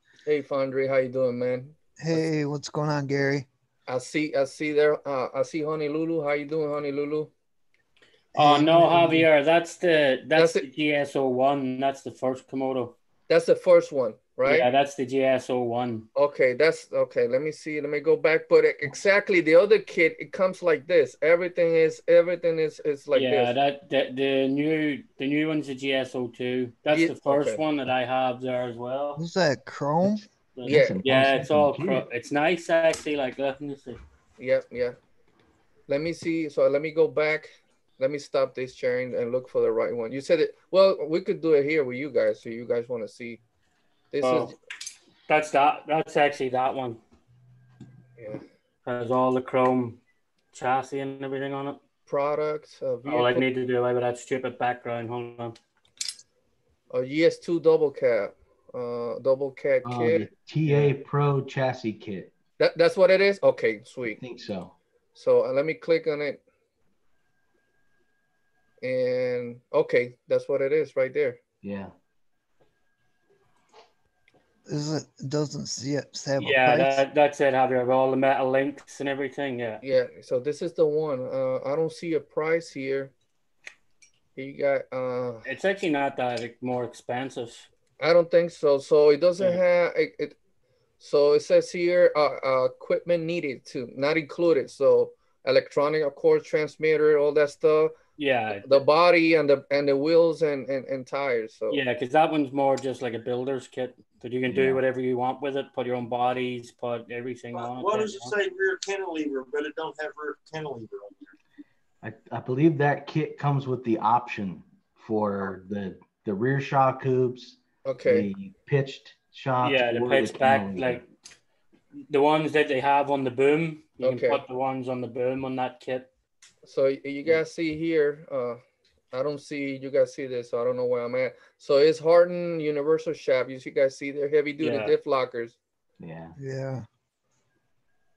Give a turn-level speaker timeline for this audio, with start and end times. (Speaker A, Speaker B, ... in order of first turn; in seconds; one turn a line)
Speaker A: 0.2-1.8
Speaker B: 2.0-3.5
Speaker A: 3.9-7.3
Speaker B: 8.3-9.3
Speaker C: 8.3-12.9
Speaker A: 10.3-10.7
Speaker A: 13.3-14.7
Speaker C: 14.4-16.1
Speaker A: 16.1-23.5
Speaker C: 23.1-29.2
Speaker A: 26.9-27.6
Speaker B: 29.2-30.2
Speaker C: 30.6-34.0
Speaker D: 30.6-32.0
Speaker A: 30.6-31.0
Speaker A: 34.4-35.0
Speaker A: 35.9-43.4
Speaker A: 44.1-44.5
Speaker C: 44.2-44.5
Speaker C: 45.3-47.0
Speaker A: 48.2-48.4
Speaker C: 48.8-50.0
Speaker C: 50.5-51.8
Speaker A: 52.1-53.5
Speaker C: 53.0-55.5
Speaker A: 56.9-60.3
Speaker D: 59.8-62.3
Speaker A: 62.6-64.2
Speaker D: 64.2-64.7
Speaker A: 65.1-66.4
Speaker A: 68.8-71.4
Speaker D: 71.6-71.9
Speaker B: 74.7-77.0
Speaker C: 76.4-79.8
Speaker A: 79.8-83.1
Speaker A: 84.3-85.5
Speaker C: 85.4-87.7
Speaker A: 88.0-90.4
Speaker A: 91.0-97.9
Speaker C: 98.2-98.8
Speaker A: 98.6-101.8
Speaker C: 101.7-108.3
Speaker D: 104.5-104.8
Speaker E: 107.5-111.3
Speaker D: 112.0-121.0
Speaker A: 117.8-118.3
Speaker C: 119.6-121.0
Speaker C: 122.1-126.1
Speaker A: 124.0-124.4
Speaker A: 126.6-128.6
Speaker A: 129.1-135.6
Speaker C: 134.6-134.9
Speaker D: 136.0-136.3
Speaker B: 136.4-136.8